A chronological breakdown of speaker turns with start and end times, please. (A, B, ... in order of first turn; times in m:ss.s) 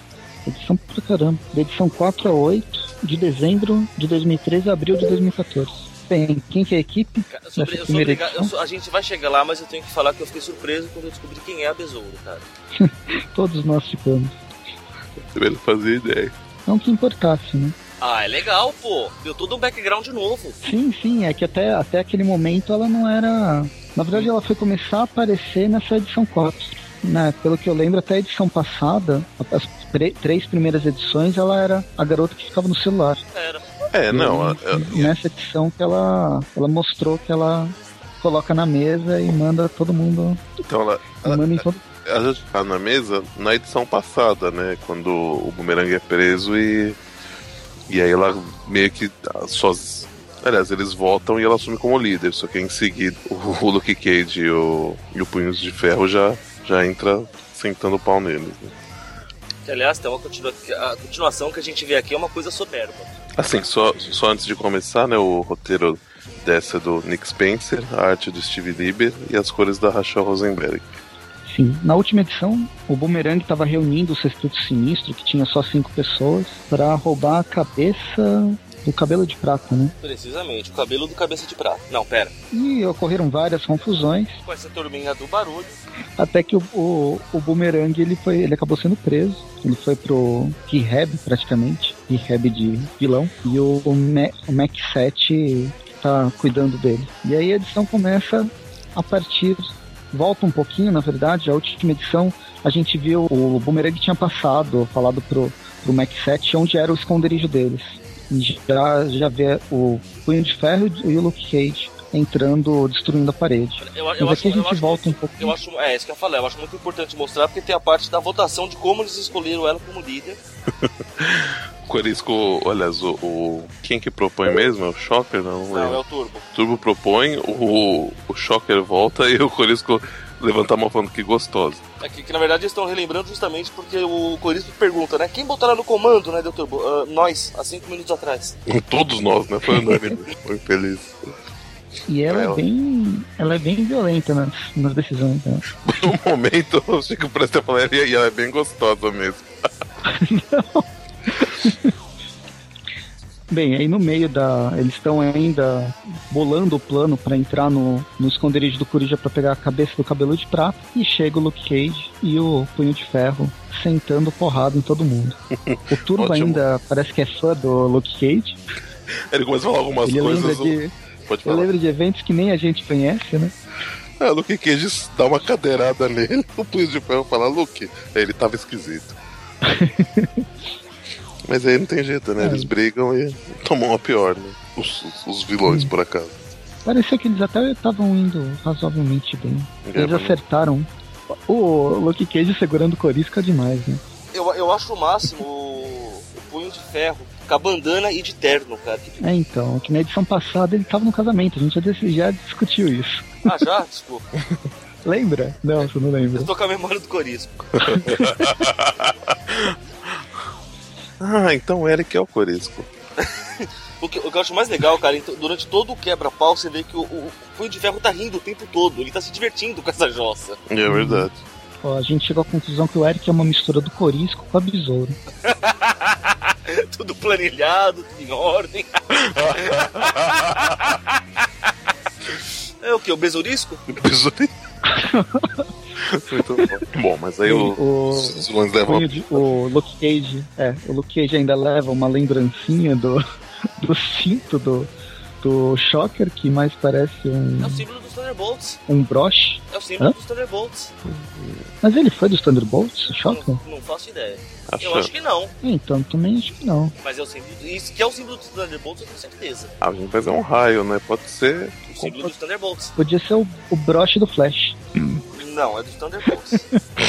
0:00.4-0:08.5 A
0:07.3-0:12.4 B
0:12.8-0:14.4 A
0:15.3-0:16.3 C
0:16.7-0:17.8 A
0:18.0-0:20.6 B
0:20.6-0:33.2 A
0:33.3-0:33.8 B
0:33.9-0:35.1 C
0:34.1-0:40.4 A
0:40.6-0:47.0 C
0:41.2-0:41.9 A
0:47.9-0:58.8 C
0:59.6-1:03.1 B
1:03.4-1:11.0 C
1:11.4-1:19.9 A
1:20.0-1:22.3 B
1:22.5-1:24.4 A
1:24.4-1:25.8 B
1:26.2-1:55.6 A
1:53.8-2:00.4 B
2:00.8-2:06.0 C
2:05.7-2:06.5 B
2:06.5-2:11.8 C
2:12.0-2:18.6 B
2:18.7-2:21.1 C
2:22.1-2:25.7 A
2:22.3-2:22.6 C
2:25.8-2:29.4 C
2:30.0-2:31.9 A
2:33.5-2:45.4 A
2:45.6-2:46.6 C
2:45.9-2:48.6 A
2:49.3-2:50.8 C
2:50.0-2:50.9 A
2:51.3-2:51.7 C
2:51.4-2:53.5 A
2:54.2-2:59.2 C
2:59.6-3:00.4 A
3:01.5-3:06.4 C
3:02.4-3:02.7 A
3:05.6-3:05.9 A
3:06.8-3:14.0 A
3:09.8-3:10.4 C
3:14.3-3:19.2 B
3:19.2-3:23.4 A
3:23.4-3:24.3 B
3:25.0-3:26.5 A
3:26.3-3:27.8 B
3:27.8-3:28.5 A
3:27.8-3:30.1 C
3:31.2-3:32.9 C
3:33.2-3:40.6 B
3:40.7-3:41.4 C
3:40.9-3:41.3 A
3:41.8-3:45.2 A
3:45.4-3:51.0 B
3:49.2-3:51.0 C
3:52.8-3:53.8 B
3:53.9-3:54.5 C
3:54.9-3:55.7 A
3:56.0-3:59.5 C
3:56.4-3:56.8 A
3:57.4-4:03.2 A
4:03.8-4:04.9 A
4:05.4-4:07.8 A
4:07.6-4:08.8 B
4:08.9-4:10.1 A
4:09.7-4:10.9 B
4:11.1-4:11.6 C
4:11.8-4:13.6 A
4:13.2-4:15.5 B
4:14.7-4:15.1 C
4:15.6-4:16.9 A
4:17.0-4:19.7 B
4:19.8-4:22.3 C
4:21.9-4:22.9 B
4:23.0-4:25.2 A
4:25.3-4:26.6 B